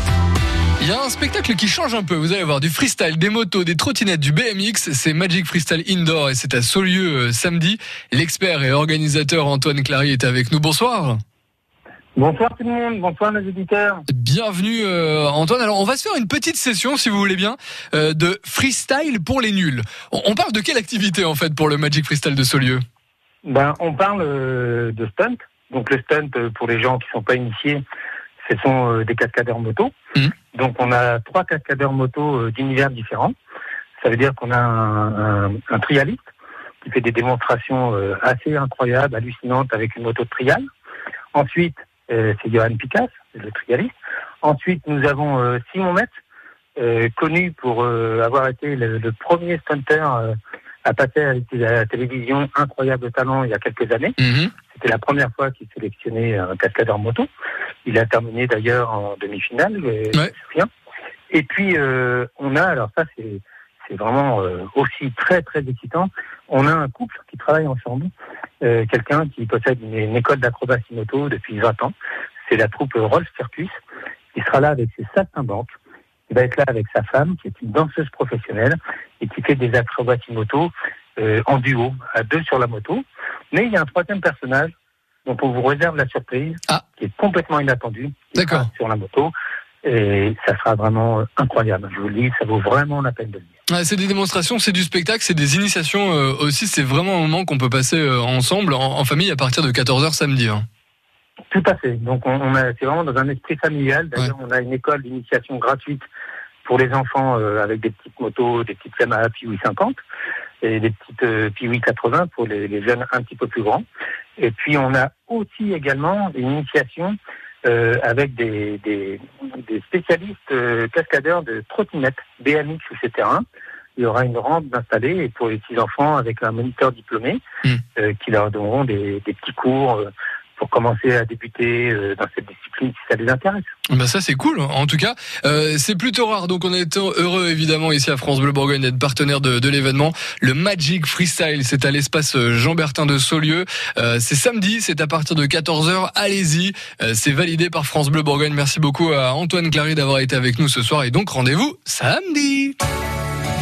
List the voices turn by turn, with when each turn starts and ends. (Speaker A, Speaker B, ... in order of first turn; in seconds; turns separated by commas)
Speaker A: 0.8-11.2, Speaker B: 12.2-14.0, Speaker A: 14.1-22.8, Speaker B: 23.4-27.8, Speaker B: 28.4-29.9, Speaker B: 30.5-33.3, Speaker B: 34.0-36.2, Speaker B: 36.8-40.6, Speaker B: 41.3-43.9, Speaker B: 44.4-46.1, Speaker B: 46.8-54.1, Speaker A: 54.2-54.5, Speaker B: 54.7-57.3, Speaker B: 57.8-60.7, Speaker B: 61.3-68.1, Speaker B: 68.6-73.7, Speaker B: 74.3-75.7, Speaker B: 76.3-84.7, Speaker B: 85.2-89.3, Speaker A: 88.4-88.7, Speaker B: 89.8-93.5, Speaker A: 93.7-100.6, Speaker B: 101.5-106.1, Speaker B: 106.6-110.0, Speaker B: 110.6-113.8, Speaker B: 114.4-123.4, Speaker B: 124.0-127.4, Speaker B: 128.0-133.7, Speaker A: 133.9-152.8